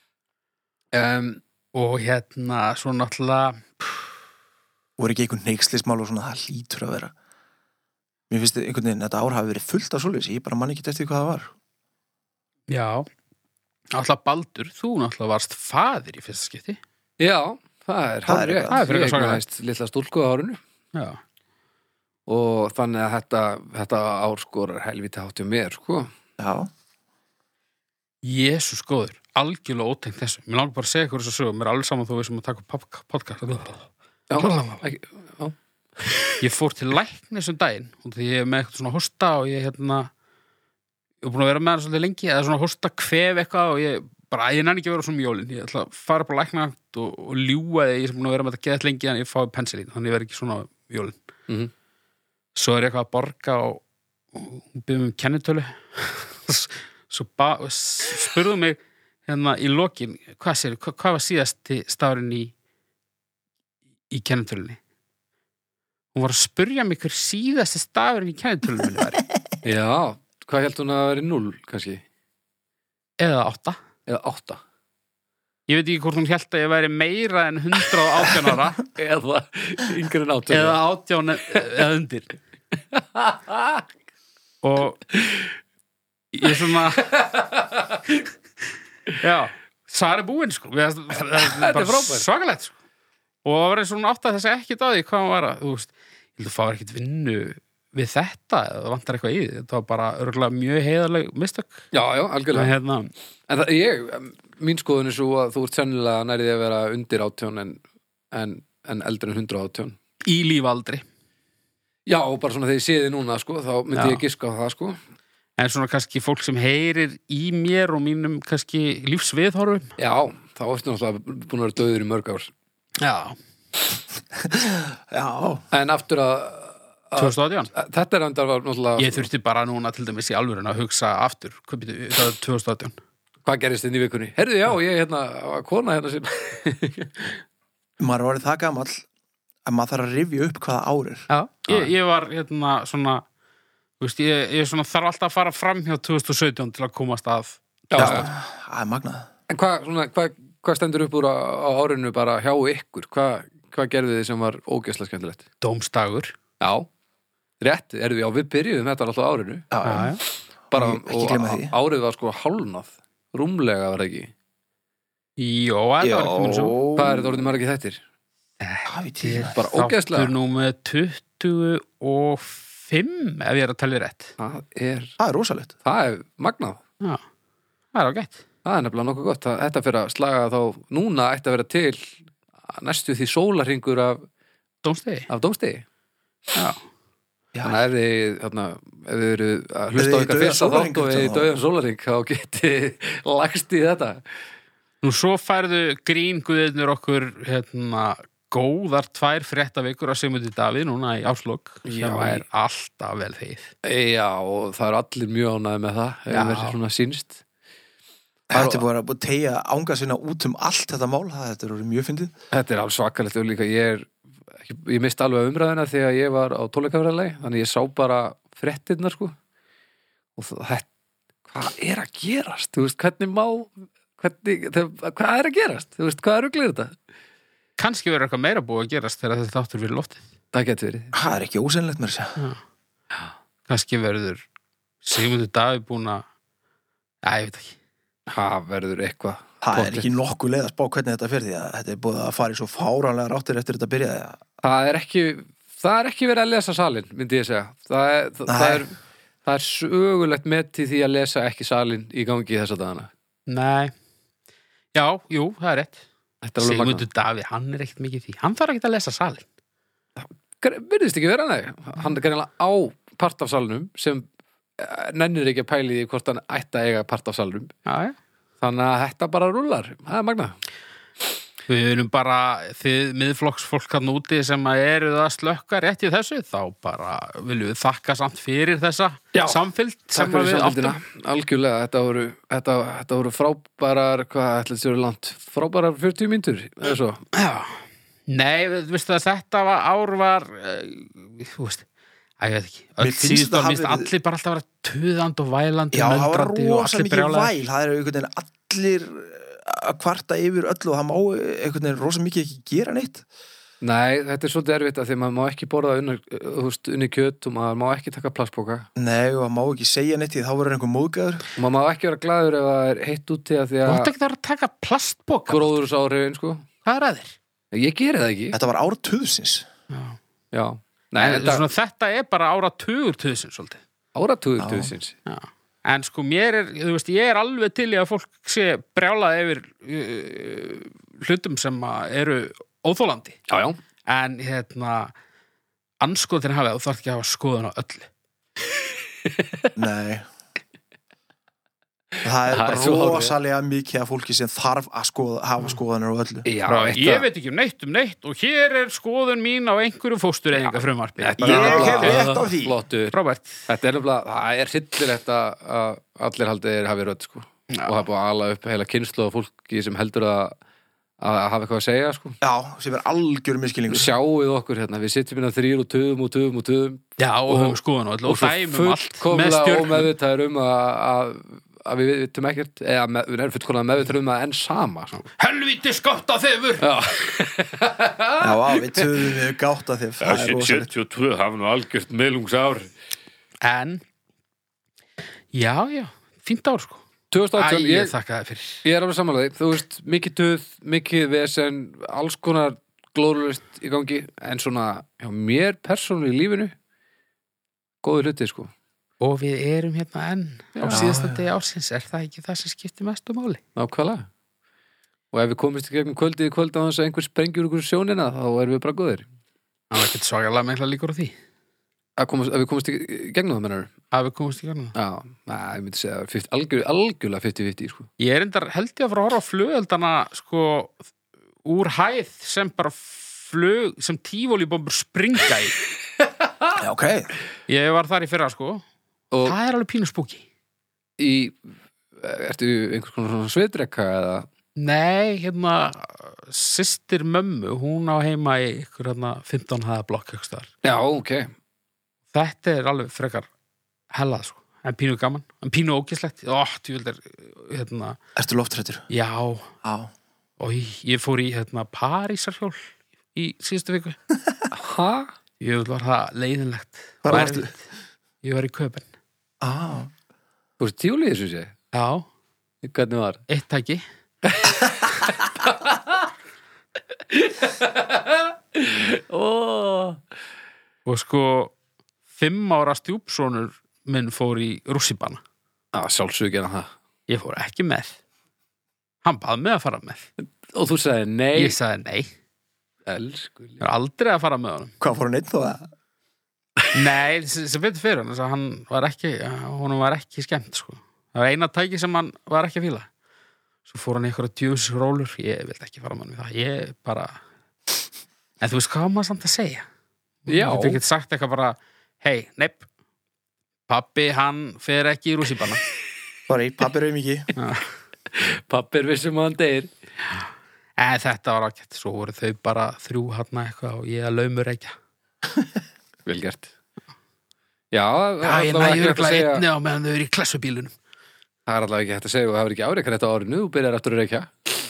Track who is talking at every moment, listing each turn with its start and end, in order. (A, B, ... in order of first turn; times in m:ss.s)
0:00.9-0:01.4 A
0:01.7-0:04.0 B
0:05.0-0:07.1 C
0:08.3-0:11.5 C
0:12.7-0:13.1 B
0:13.9-0:16.8 B
0:17.2-0:20.6 A
0:18.3-0:18.8 C
0:18.7-0:19.4 B
0:20.9-0:21.2 B
0:22.3-0:26.1 A
0:26.4-0:26.7 C
0:28.2-0:33.8 B
0:34.3-0:36.3 A
0:34.4-0:34.8 B
0:36.4-0:40.1 B
0:41.2-0:51.2 B
0:52.5-0:53.8 B
0:54.3-1:02.5 B
1:04.1-1:04.8 B
1:06.1-1:09.2 B
1:09.6-1:12.0 A
1:13.2-1:13.8 B
1:14.0-1:14.6 A
1:15.7-1:18.8 B
1:18.9-1:20.8 A
1:20.5-1:22.4 B
1:22.9-1:23.8 A
1:24.6-1:25.0 B
1:25.1-1:25.5 A
1:26.3-1:27.1 B
1:26.4-1:28.2 A
1:29.2-1:32.7 B
1:31.2-1:32.2 A
1:33.4-1:41.8 B
1:41.9-1:42.8 A
1:42.5-1:43.1 B
1:43.5-1:50.0 A
1:50.2-1:51.0 B
1:52.0-1:55.0 A
1:53.9-1:54.2 B
1:55.6-1:59.9 B
2:00.0-2:02.5 A
2:03.0-2:03.4 B
2:04.5-2:05.6 C
2:05.7-2:09.3 A
2:07.2-2:07.7 B
2:09.0-2:13.0 B
2:13.4-2:17.4 A
2:18.0-2:19.0 C
2:19.6-2:21.3 C
2:21.3-2:23.2 B
2:21.7-2:21.9 A
2:24.0-2:28.3 B
2:27.9-2:28.3 A
2:28.0-2:29.3 C
2:29.5-2:35.4 A
2:35.6-2:36.4 B
2:36.6-2:36.9 A
2:37.6-2:39.7 A
2:39.7-2:40.1 C
2:39.8-2:40.2 B
2:40.7-2:44.3 A
2:40.7-2:41.7 C
2:45.4-2:46.8 B
2:46.0-2:47.5 C
2:47.0-2:48.0 A
2:48.6-2:54.3 B
2:48.8-2:49.6 C
2:49.5-2:50.3 A
2:54.4-2:55.2 A
2:55.2-2:55.7 C
2:55.8-2:56.8 A
2:57.9-2:58.4 B
2:58.6-3:04.2 A
3:04.8-3:05.3 B
3:05.3-3:05.8 A
3:06.5-3:06.8 B
3:07.5-3:07.8 C
3:07.6-3:14.2 A
3:09.9-3:11.5 C
3:15.0-3:23.7 B
3:21.8-3:22.4 A
3:23.8-3:27.4 A
3:26.3-3:26.8 B
3:28.5-3:28.8 A
3:28.5-3:32.3 C
3:32.5-3:39.4 A
3:40.4-3:40.9 A
3:41.5-3:47.0 A
3:47.8-3:50.2 B
3:50.5-3:51.1 A
3:51.1-3:52.4 C
3:53.7-3:54.4 B
3:55.0-3:56.2 B
3:57.2-3:57.8 B
3:58.3-4:00.1 A
3:59.6-4:04.4 C
4:04.6-4:08.9 A
4:08.5-4:08.8 C
4:09.4-4:13.1 A
4:13.5-4:13.9 B
4:14.9-4:16.0 B
4:16.4-4:17.0 A
4:16.6-4:19.4 B
4:20.2-4:27.8 A
4:27.8-4:28.2 B
4:28.6-4:30.6 A
4:31.7-4:41.0 B
4:39.3-4:39.6 A
4:40.1-4:47.2 A
4:47.3-4:51.8 B
4:52.4-4:57.6 B
4:53.0-4:54.1 C
4:55.9-5:03.2 C
5:03.8-5:08.9 A
5:09.0-5:11.5 C
5:11.6-5:14.1 A
5:13.8-5:15.8 B
5:15.5-5:16.6 A
5:16.8-5:17.4 B
5:17.7-5:18.6 A
5:18.5-5:19.7 C
5:19.9-5:20.2 B
5:20.5-5:21.6 A
5:21.2-5:23.8 B
5:24.1-5:25.1 A
5:24.6-5:24.9 C
5:25.2-5:33.4 B
5:33.5-5:33.8 A
5:34.1-5:35.1 B
5:36.0-5:38.1 B
5:39.2-5:39.7 A
5:39.7-5:40.2 C
5:42.2-5:46.4 C
5:42.5-5:43.4 A
5:46.4-5:47.3 A
5:46.6-5:52.3 B
5:50.7-5:53.1 A
5:51.4-5:52.8 C
5:53.1-5:53.6 B
5:53.7-6:00.6 A
5:57.7-5:58.0 B
6:01.2-6:02.4 A
6:02.4-6:04.1 C
6:03.9-6:15.2 A
6:07.2-6:10.1 B
6:15.4-6:16.9 B
6:16.8-6:19.4 A
6:18.4-6:20.9 C
6:20.2-6:22.9 A
6:23.6-6:24.0 B
6:25.5-6:27.0 B
6:27.3-6:28.1 A
6:27.6-6:28.8 B
6:28.8-6:36.7 A
6:38.0-6:38.7 A
6:39.2-6:43.6 B
6:40.8-6:41.0 A
6:40.8-6:41.4 C
6:43.8-6:44.3 A
6:45.3-6:49.2 A
6:49.9-6:51.3 B
6:52.2-6:53.9 A
6:54.1-6:54.9 B
6:54.9-6:58.1 A
6:58.2-7:01.0 B
7:01.6-7:05.8 B
7:06.7-7:07.3 C
7:07.7-7:08.8 B
7:09.3-7:09.6 A
7:09.4-7:10.4 B
7:11.2-7:11.6 A
7:12.2-7:14.5 A
7:14.8-7:20.7 B
7:20.8-7:21.5 A
7:22.3-7:23.5 B
7:24.1-7:28.2 B
7:28.4-7:29.0 C
7:29.1-7:29.7 B
7:29.8-7:30.1 C
7:30.6-7:34.2 B
7:34.7-7:35.3 A
7:35.6-7:37.9 B
7:37.2-7:37.7 C
7:38.4-7:39.1 B
7:39.6-7:40.1 C
7:40.8-7:41.7 A
7:41.9-7:42.3 B
7:42.8-7:43.4 A
7:43.5-7:44.0 B
7:44.5-7:46.2 A
7:47.3-7:50.2 A
7:51.0-7:51.7 B
7:52.3-7:55.4 B
7:55.9-7:56.9 A
7:57.3-7:58.2 B
7:59.2-8:00.3 B
8:00.4-8:01.8 A
8:01.5-8:02.3 B
8:03.0-8:03.8 A
8:03.8-8:04.9 B
8:05.0-8:05.8 C
8:06.9-8:13.1 B
8:13.8-8:17.4 B
8:18.6-8:19.8 B
8:20.4-8:22.8 B
8:20.5-8:21.0 A
8:23.9-8:25.8 B
8:26.5-8:27.5 C
8:27.6-8:27.9 B
8:28.3-8:29.9 A
8:31.0-8:34.9 B
8:36.2-8:36.7 A
8:37.9-8:39.6 A
8:38.4-8:40.9 B
8:41.6-8:44.5 A